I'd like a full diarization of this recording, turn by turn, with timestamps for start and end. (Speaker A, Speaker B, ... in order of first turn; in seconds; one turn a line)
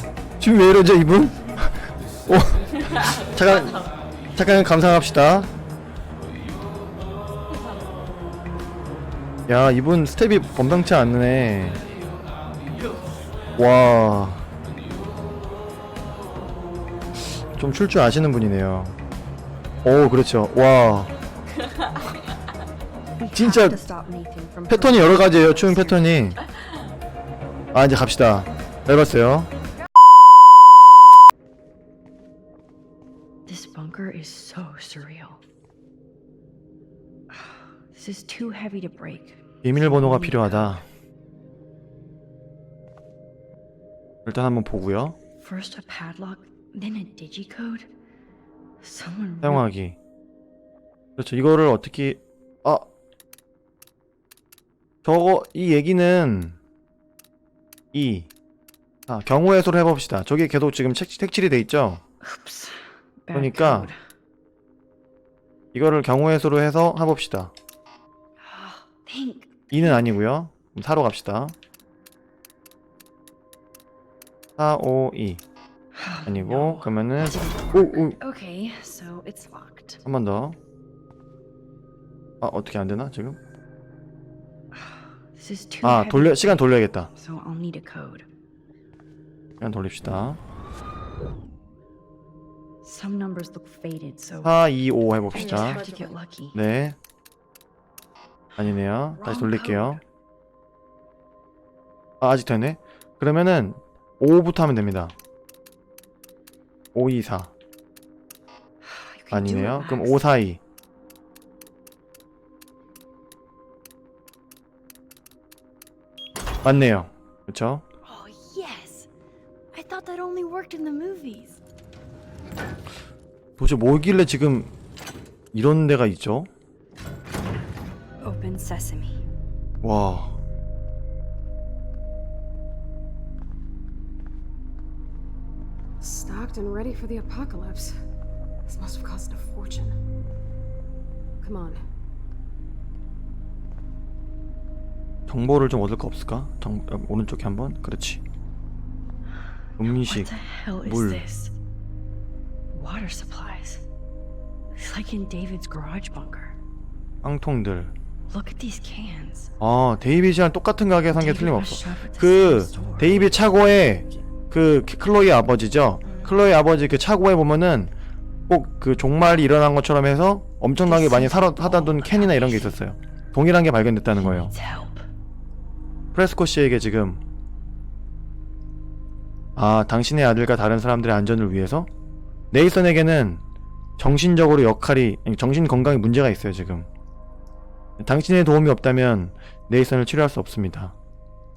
Speaker A: 0.4-5.5
Speaker A: 9.5-11.8
Speaker A: 13.6-14.5
Speaker A: 17.5-19.0
Speaker A: 19.8-21.1
Speaker B: 23.2-26.2
Speaker A: 23.3-23.8
Speaker A: 24.7-26.4
Speaker A: 27.7-29.5
Speaker B: 33.5-35.4
Speaker B: 37.3-40.8
Speaker A: 39.6-40.9
Speaker A: 44.2-45.2
Speaker B: 45.4-47.9
Speaker B: 48.8-49.7
Speaker A: 49.4-50.0
Speaker A: 51.2-52.9
Speaker A: 55.0-56.6
Speaker A: 57.9-58.3
Speaker A: 59.1-62.0
Speaker B: 62.2-64.0
Speaker A: 63.3-63.9
Speaker A: 65.7-67.5
Speaker B: 68.4-70.1
Speaker A: 69.7-71.5
Speaker A: 74.6-75.4
Speaker B: 75.9-80.0
Speaker A: 76.3-78.2
Speaker A: 80.0-80.6
Speaker A: 82.4-83.4
Speaker B: 84.7-88.3
Speaker A: 85.8-87.1
Speaker A: 89.6-90.4
Speaker B: 92.8-94.5
Speaker A: 94.4-95.8
Speaker B: 95.3-96.6
Speaker C: 95.6-96.1
Speaker A: 96.5-97.0
Speaker A: 98.6-100.0
Speaker B: 99.2-100.0
Speaker A: 102.2-105.2
Speaker A: 106.9-107.5
Speaker B: 108.8-110.2
Speaker A: 109.3-110.6
Speaker A: 116.6-117.8
Speaker B: 118.1-119.1
Speaker B: 119.7-121.6
Speaker A: 123.6-124.7
Speaker A: 125.5-126.5
Speaker B: 128.2-129.2
Speaker A: 129.8-130.4
Speaker C: 136.0-138.0
Speaker C: 138.7-140.0
Speaker C: 141.4-141.8
Speaker A: 145.3-148.2
Speaker A: 149.8-150.3
Speaker B: 149.8-151.6
Speaker A: 150.8-151.2
Speaker B: 152.7-153.8
Speaker B: 154.7-156.6
Speaker A: 157.2-157.9
Speaker B: 158.3-159.5
Speaker A: 159.6-167.9
Speaker B: 161.2-163.4
Speaker A: 168.5-174.5
Speaker B: 170.8-172.8
Speaker B: 174.1-175.1
Speaker A: 176.1-177.2
Speaker A: 179.6-181.9
Speaker A: 182.5-183.4
Speaker A: 184.0-186.9
Speaker A: 188.0-190.9